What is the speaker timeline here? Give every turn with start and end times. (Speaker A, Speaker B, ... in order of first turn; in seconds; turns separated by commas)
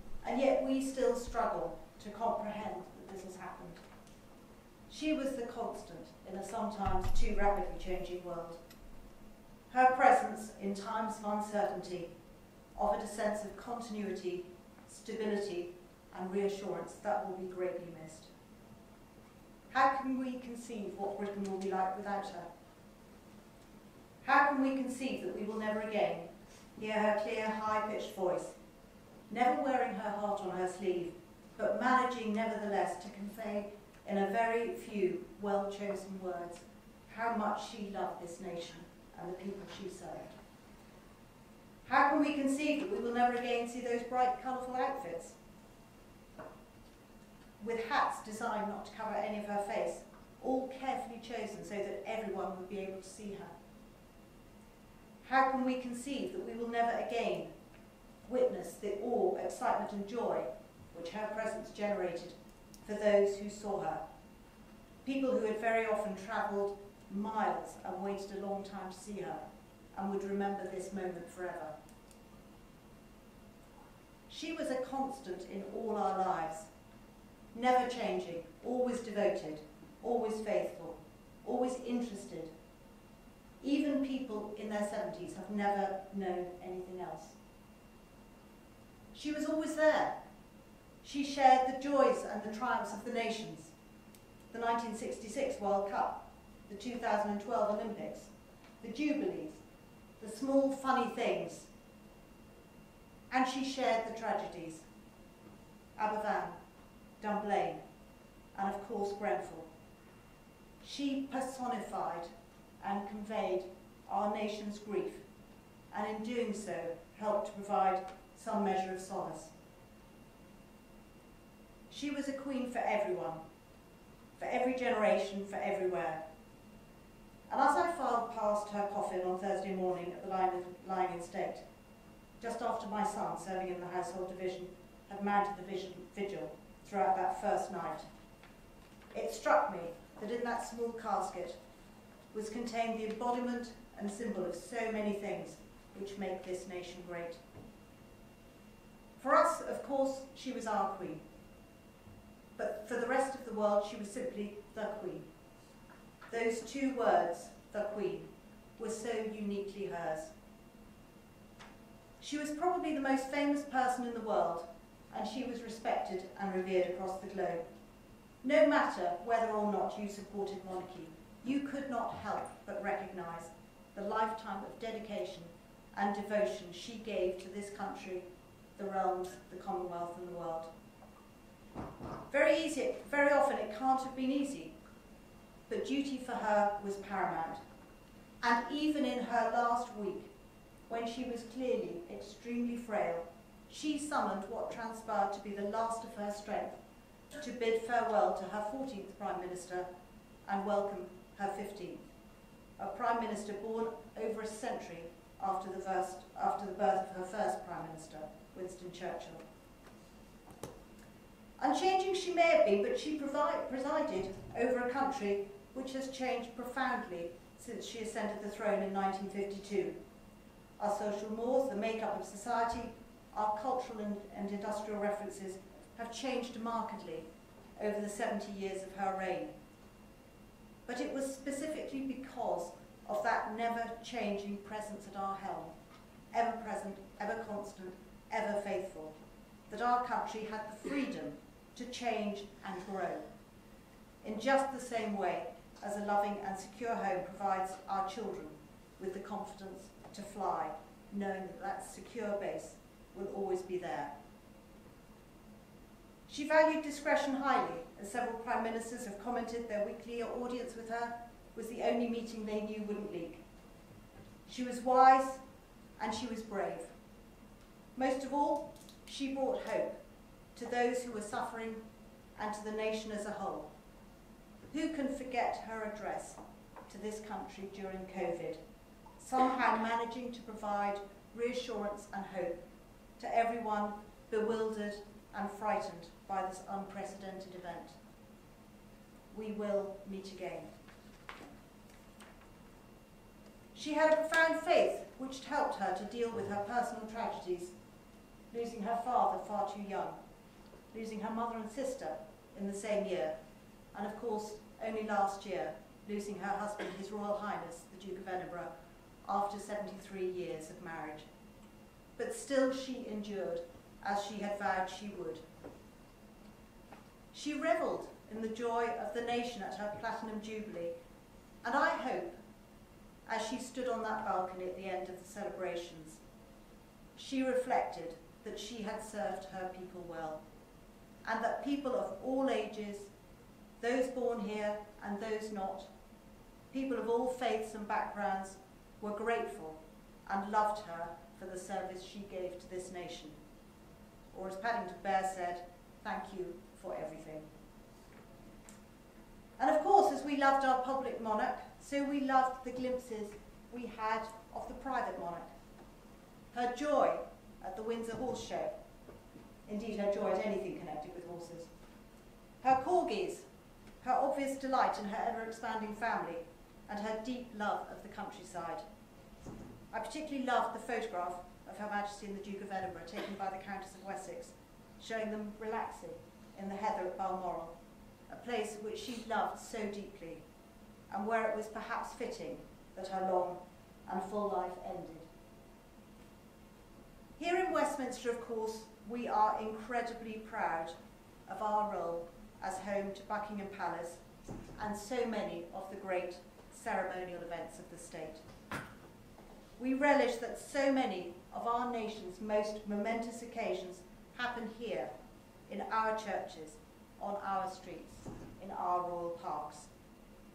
Speaker A: 0.2-3.8, Speaker A: 4.9-8.6, Speaker A: 9.7-12.1, Speaker A: 12.8-18.3, Speaker A: 19.7-22.5, Speaker A: 24.2-28.6, Speaker A: 29.3-40.3, Speaker A: 41.9-45.4, Speaker A: 47.6-53.5, Speaker A: 55.2-57.5, Speaker A: 58.3-64.0, Speaker A: 65.0-71.8, Speaker A: 74.3-76.7, Speaker A: 77.5-82.5, Speaker A: 83.6-87.4, Speaker A: 89.1-90.2, Speaker A: 91.0-93.7, Speaker A: 94.5-99.6, Speaker A: 100.2-101.7, Speaker A: 103.3-104.9, Speaker A: 106.0-106.6, Speaker A: 107.2-107.8, Speaker A: 108.5-109.7, Speaker A: 110.8-112.3, Speaker A: 112.8-115.2, Speaker A: 115.9-119.5, Speaker A: 121.9-123.4, Speaker A: 124.4-126.2, Speaker A: 127.5-131.6, Speaker A: 132.4-138.1, Speaker A: 139.1-141.6, Speaker A: 142.3-147.4, Speaker A: 149.2-151.2, Speaker A: 152.6-155.3, Speaker A: 156.3-160.3, Speaker A: 162.2-167.6, Speaker A: 168.4-178.2, Speaker A: 178.8-180.7, Speaker A: 182.3-184.7, Speaker A: 185.7-187.6, Speaker A: 188.4-190.3, Speaker A: 190.9-196.8, Speaker A: 197.3-199.9, Speaker A: 200.5-202.0, Speaker A: 202.8-209.4, Speaker A: 211.6-220.0, Speaker A: 220.8-229.5, Speaker A: 230.9-235.7, Speaker A: 236.3-239.1, Speaker A: 239.7-243.3, Speaker A: 244.2-254.1, Speaker A: 256.3-263.4, Speaker A: 264.5-265.4, Speaker A: 266.0-266.9, Speaker A: 268.0-270.0, Speaker A: 270.6-271.8, Speaker A: 272.4-273.7, Speaker A: 274.7-278.6, Speaker A: 279.2-282.6, Speaker A: 283.2-288.0, Speaker A: 289.3-290.7, Speaker A: 293.7-297.7, Speaker A: 298.5-300.2, Speaker A: 300.9-303.4, Speaker A: 303.9-308.7, Speaker A: 309.2-311.3, Speaker A: 312.2-315.4, Speaker A: 317.3-320.9, Speaker A: 321.6-322.4, Speaker A: 323.3-326.2, Speaker A: 327.2-330.4, Speaker A: 331.2-333.1, Speaker A: 333.8-335.9, Speaker A: 336.7-343.4, Speaker A: 344.3-347.5, Speaker A: 349.6-355.5, Speaker A: 356.5-358.7, Speaker A: 359.7-361.7, Speaker A: 362.6-363.4, Speaker A: 364.0-368.8, Speaker A: 369.9-377.8, Speaker A: 378.3-380.4, Speaker A: 381.1-385.3, Speaker A: 387.4-390.9, Speaker A: 391.5-394.2, Speaker A: 394.8-398.4, Speaker A: 399.8-405.1, Speaker A: 405.7-409.9